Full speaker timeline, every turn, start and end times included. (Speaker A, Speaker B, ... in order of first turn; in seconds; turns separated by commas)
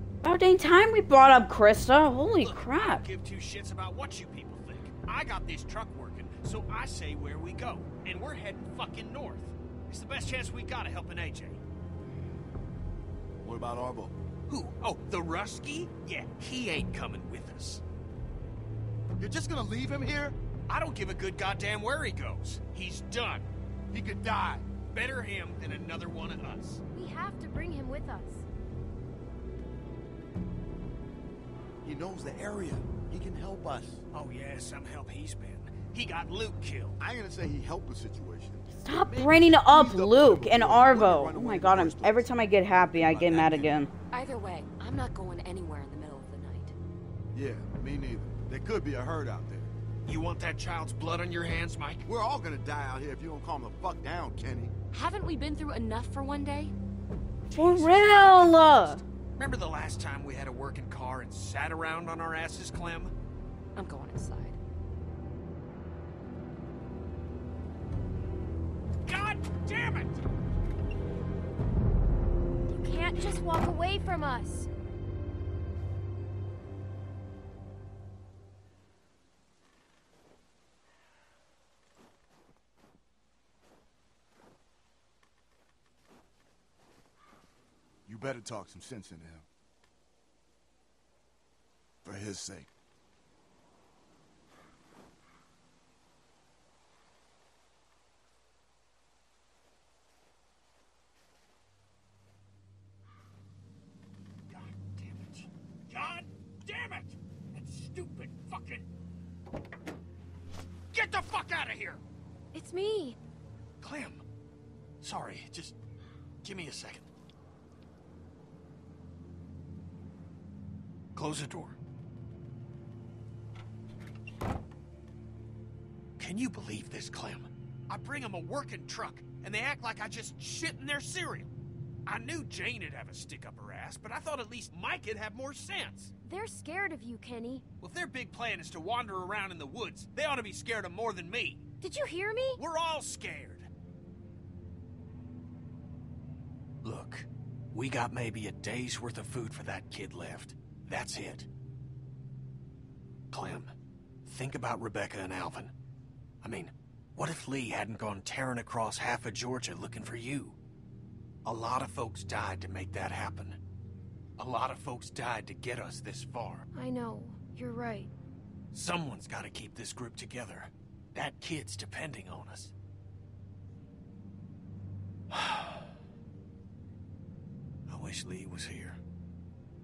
Speaker A: 0.2-3.1, Speaker B: 2.4-11.6, Speaker C: 13.4-14.1, Speaker B: 14.5-17.8, Speaker C: 19.2-20.4, Speaker B: 20.7-23.5, Speaker C: 23.9-24.6, Speaker B: 24.8-26.8, Speaker D: 26.9-28.5, Speaker C: 31.8-34.0, Speaker B: 34.1-37.0, Speaker C: 37.0-42.3, Speaker A: 38.8-43.9, Speaker C: 42.9-43.8, Speaker E: 44.1-46.7, Speaker C: 47.3-49.7, Speaker B: 50.1-52.0, Speaker C: 52.0-54.7, Speaker E: 54.9-56.7, Speaker B: 57.5-58.5, Speaker A: 57.5-59.0, Speaker B: 59.4-63.1, Speaker E: 63.8-64.6, Speaker B: 69.0-70.2, Speaker D: 72.7-74.7, Speaker C: 88.1-89.5, Speaker C: 92.0-92.7, Speaker B: 104.5-108.9, Speaker B: 110.9-112.0, Speaker D: 112.5-113.2, Speaker B: 113.8-114.2, Speaker B: 115.0-115.8, Speaker B: 116.4-117.1, Speaker B: 121.1-121.8, Speaker B: 126.2-131.5, Speaker B: 132.1-136.1, Speaker D: 136.2-137.7, Speaker B: 137.8-141.6, Speaker D: 141.8-142.6, Speaker B: 142.6-143.7, Speaker B: 146.8-151.5, Speaker B: 153.3-153.7, Speaker B: 154.3-155.7, Speaker B: 156.4-160.6, Speaker B: 161.4-163.6, Speaker B: 164.4-166.7, Speaker D: 166.7-168.1, Speaker B: 168.7-172.7, Speaker B: 175.3-175.8, Speaker B: 177.9-179.0